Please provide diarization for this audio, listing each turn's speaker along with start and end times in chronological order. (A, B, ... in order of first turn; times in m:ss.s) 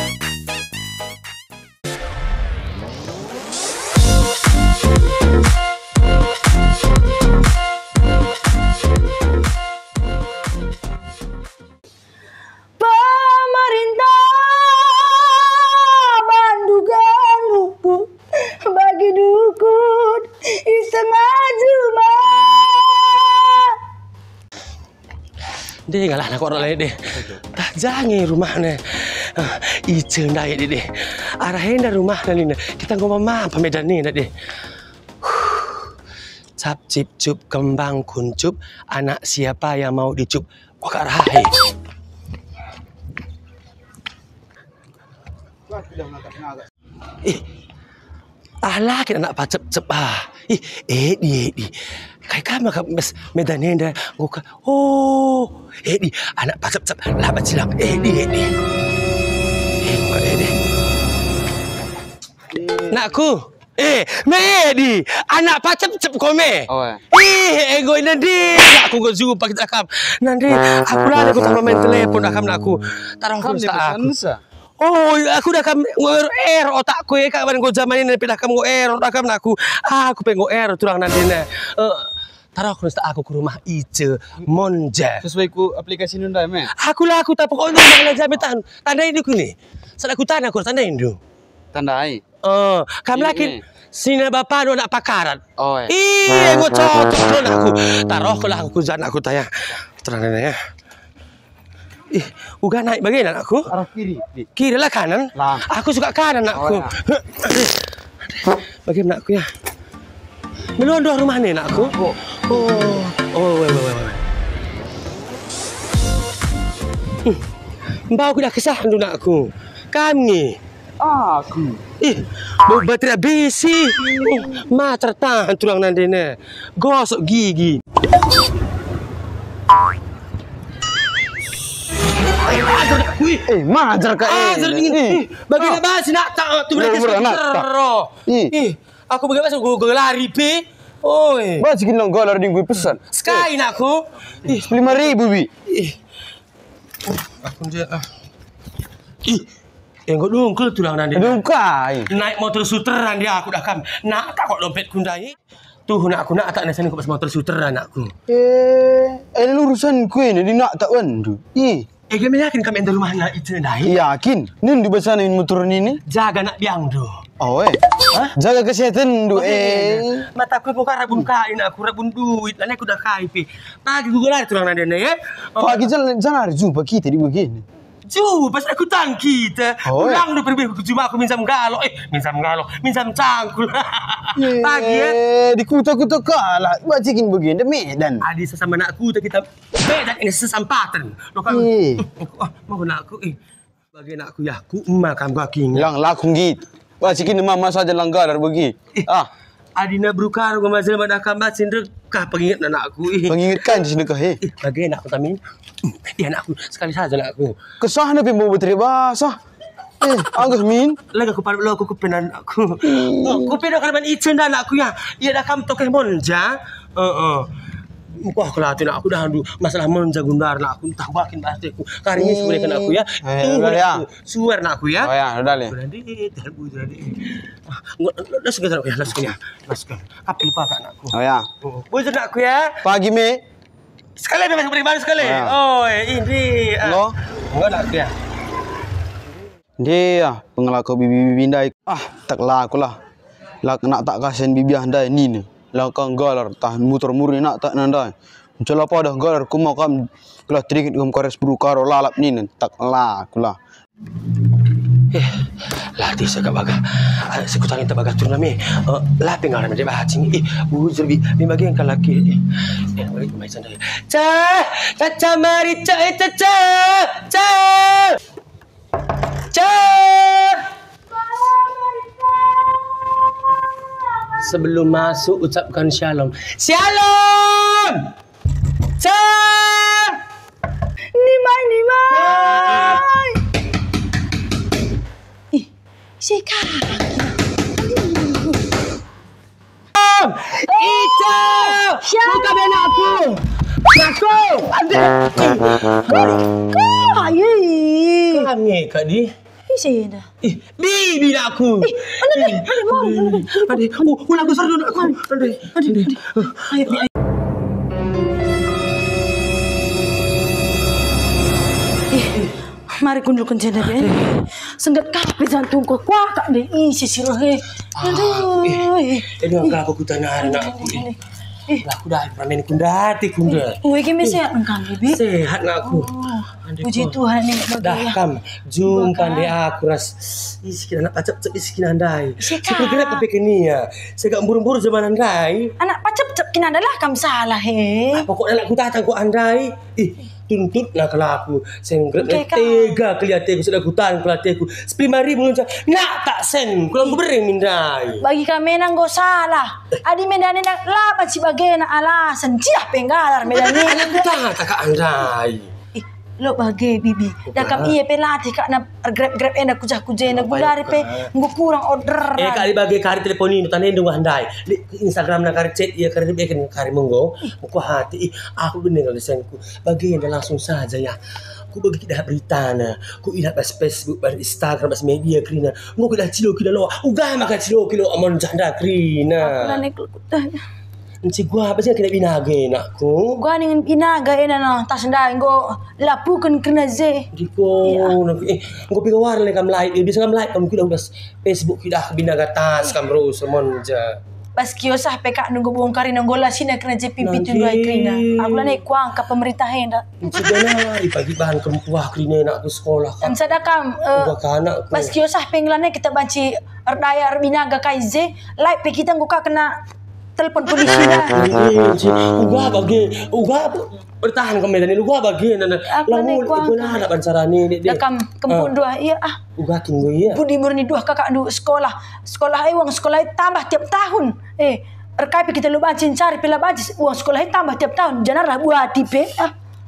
0:12.8-0:23.8 A
0:25.9-0:34.3 B
0:35.2-0:35.9 B
0:36.6-0:41.5 B
0:45.7-0:46.6 C
0:48.6-0:51.7 B
0:52.2-0:58.5 B
0:59.8-1:00.5 B
1:02.5-1:02.9 C
1:02.9-1:14.1 B
1:06.7-1:07.0 C
1:13.4-1:14.4 C
1:14.8-1:25.2 B
1:25.2-1:26.7 C
1:26.8-1:31.2 B
1:31.7-1:32.2 C
1:32.4-1:40.6 B
1:33.1-1:33.6 C
1:35.6-1:35.9 C
1:42.1-1:43.7 B
1:43.7-1:44.5 C
1:44.6-1:47.8 B
1:45.4-1:45.6 C
1:46.5-1:46.9 C
1:48.3-1:49.5 B
1:50.8-1:54.2 B
1:51.7-1:52.5 C
1:58.1-2:00.6 B
2:01.0-2:01.8 C
2:02.0-2:07.8 B
2:12.3-2:13.5 B
2:13.5-2:15.8 C
2:14.2-2:21.7 B
2:16.7-2:17.6 C
2:18.3-2:18.5 C
2:21.6-2:23.4 C
2:22.9-2:26.0 B
2:24.4-2:25.5 C
2:27.1-2:28.1 B
2:30.1-2:31.4 B
2:31.1-2:32.1 C
2:32.1-2:35.4 B
2:35.9-2:38.1 B
2:38.3-2:41.8 C
2:42.1-2:44.0 B
2:43.8-2:46.0 C
2:46.1-2:47.2 B
2:47.4-2:50.2 C
2:49.3-2:55.9 B
2:55.6-2:57.6 C
2:58.0-3:05.2 B
2:59.8-3:00.2 C
3:04.4-3:08.2 C
3:08.2-3:13.4 B
3:11.5-3:12.0 C
3:13.9-3:15.9 B
3:15.7-3:19.3 C
3:19.8-3:23.8 B
3:23.3-3:24.4 C
3:24.4-3:27.6 B
3:27.8-3:29.4 C
3:30.0-3:31.0 C
3:31.1-3:37.5 B
3:32.8-3:33.6 C
3:38.2-3:52.9 B
3:42.2-3:44.0 C
3:45.0-3:45.7 C
3:51.1-3:51.5 C
3:52.8-3:53.4 C
3:54.2-3:58.1 B
3:55.2-3:55.6 C
3:56.8-3:57.1 C
3:59.8-4:03.0 C
4:03.6-4:13.6 C
4:15.1-4:28.2 B
4:29.5-4:30.6 B
4:34.4-4:38.1 B
4:39.0-4:40.2 B
4:41.1-4:43.4 A
4:42.1-4:43.1 B
4:46.2-4:48.6 A
4:49.9-4:56.2 B
4:50.7-4:53.0 A
4:56.0-4:58.5 A
4:58.3-4:59.3 B
4:59.7-5:00.2 A
5:00.4-5:07.0 B
5:01.8-5:07.0 A
5:12.1-5:19.7 A
5:14.0-5:14.2 B
5:18.0-5:21.1 B
5:20.4-5:21.8 A
5:21.8-5:24.4 B
5:23.4-5:25.2 A
5:25.0-5:26.1 B
5:25.8-5:28.2 A
5:26.6-5:35.7 B
5:28.8-5:29.5 A
5:32.4-5:33.2 A
5:35.8-5:38.3 A
5:38.1-5:48.2 B
5:42.2-5:43.0 A
5:48.2-5:54.3 A
5:53.5-5:55.7 B
5:56.0-6:02.7 A
5:57.5-5:58.0 B
6:00.3-6:01.3 B
6:02.4-6:11.2 B
6:11.7-6:19.8 B
6:19.4-6:20.6 A
6:21.2-6:23.4 B
6:23.4-6:27.3 A
6:27.3-6:34.2 B
6:27.8-6:28.2 A
6:34.6-6:40.1 A
6:37.2-6:38.8 B
6:40.2-6:43.5 B
6:43.2-6:44.3 A
6:44.1-6:45.1 B
6:44.9-6:49.7 A
6:50.4-6:51.4 A
6:51.3-6:58.7 B
6:55.9-6:57.1 A
6:57.8-6:59.4 A
6:59.6-7:00.4 B
7:00.3-7:09.5 A